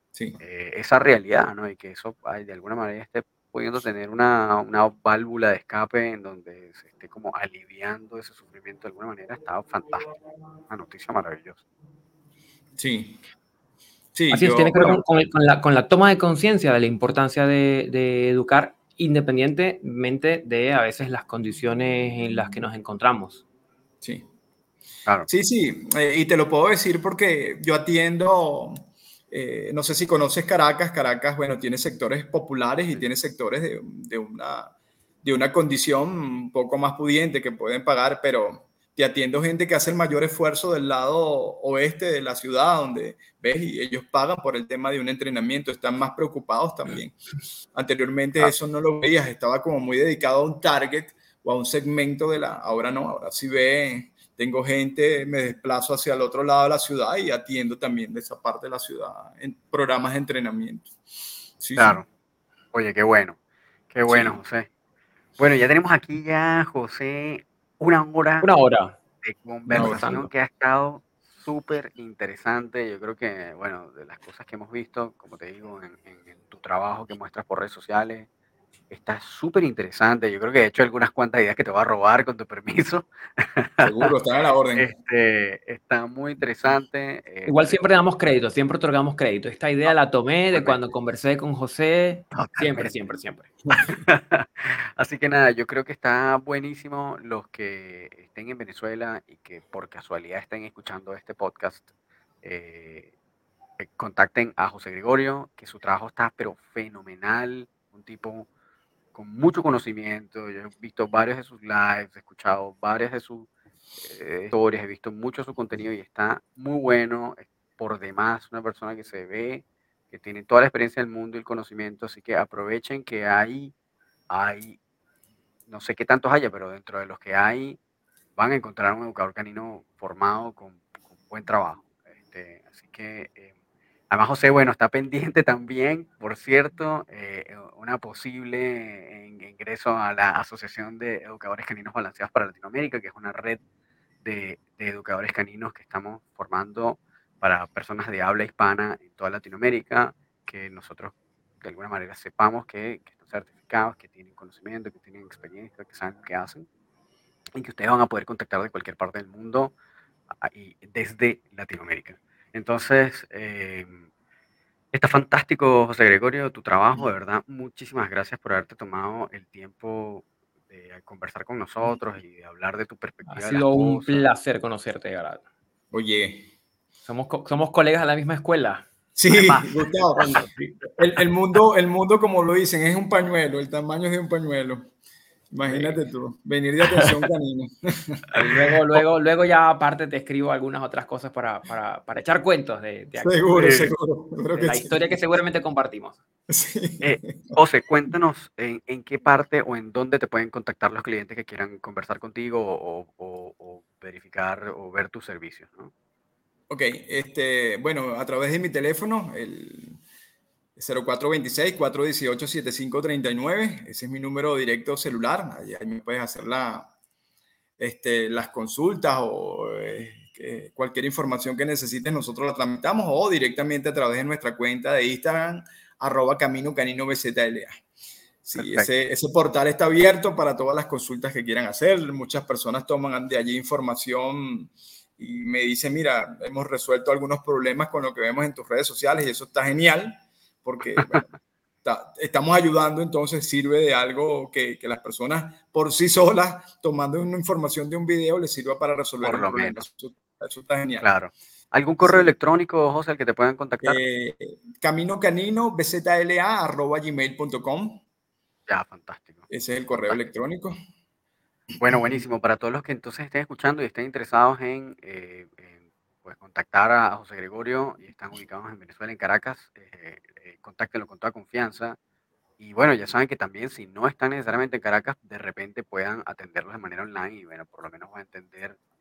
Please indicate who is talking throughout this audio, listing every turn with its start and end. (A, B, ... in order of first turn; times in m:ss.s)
0:00.4-0:10.1 A
0:10.7-0:11.6 A
0:12.8-0:13.2 B
0:14.1-0:15.0 B
0:14.3-0:23.4 C
0:24.0-0:24.3 B
0:25.3-0:47.1 B
0:47.7-1:00.9 B
1:01.6-1:02.0 B
1:01.8-1:02.0 A
1:02.7-1:03.4 A
1:03.9-1:04.7 A
1:04.1-1:04.4 B
1:05.4-1:08.6 A
1:08.4-1:09.0 C
1:09.2-1:18.3 A
1:09.7-1:10.3 C
1:09.7-1:10.0 B
1:18.9-1:24.1 A
1:23.8-1:24.9 B
1:24.7-1:27.8 A
1:27.4-1:33.5 C
1:30.5-1:30.8 A
1:32.3-1:33.1 A
1:33.7-1:41.9 A
1:42.4-1:43.1 A
1:43.8-1:48.5 A
1:49.1-1:53.5 A
1:54.0-2:03.7 A
2:04.3-2:04.8 A
2:05.7-2:07.8 A
2:08.4-2:13.5 A
2:14.1-2:23.6 A
2:24.2-2:36.7 A
2:37.6-2:39.7 A
2:40.4-2:44.0 A
2:44.9-2:54.2 A
2:53.2-2:55.4 C
2:55.9-2:56.5 B
2:57.0-2:58.8 C
2:59.2-3:00.4 B
3:00.1-3:00.9 C
3:01.0-3:04.9 B
3:05.5-3:08.3 B
3:08.3-3:13.9 C
3:13.2-3:15.2 B
3:13.6-3:13.9 A
3:14.5-3:16.2 C
3:16.5-3:17.6 B
3:17.0-3:25.9 A
3:26.7-3:30.0 B
3:30.8-3:36.9 B
3:37.8-3:47.8 B
3:48.4-4:01.3 B
3:48.6-3:48.9 A
4:01.0-4:01.2 A
4:01.8-4:11.1 B
4:09.2-4:09.8 A
4:11.0-4:14.0 A
4:12.0-4:12.3 B
4:13.8-4:18.0 B
4:18.7-4:19.5 A
4:19.5-4:20.7 B
4:21.8-4:32.0 A
4:21.9-4:22.2 B
4:32.6-4:38.8 A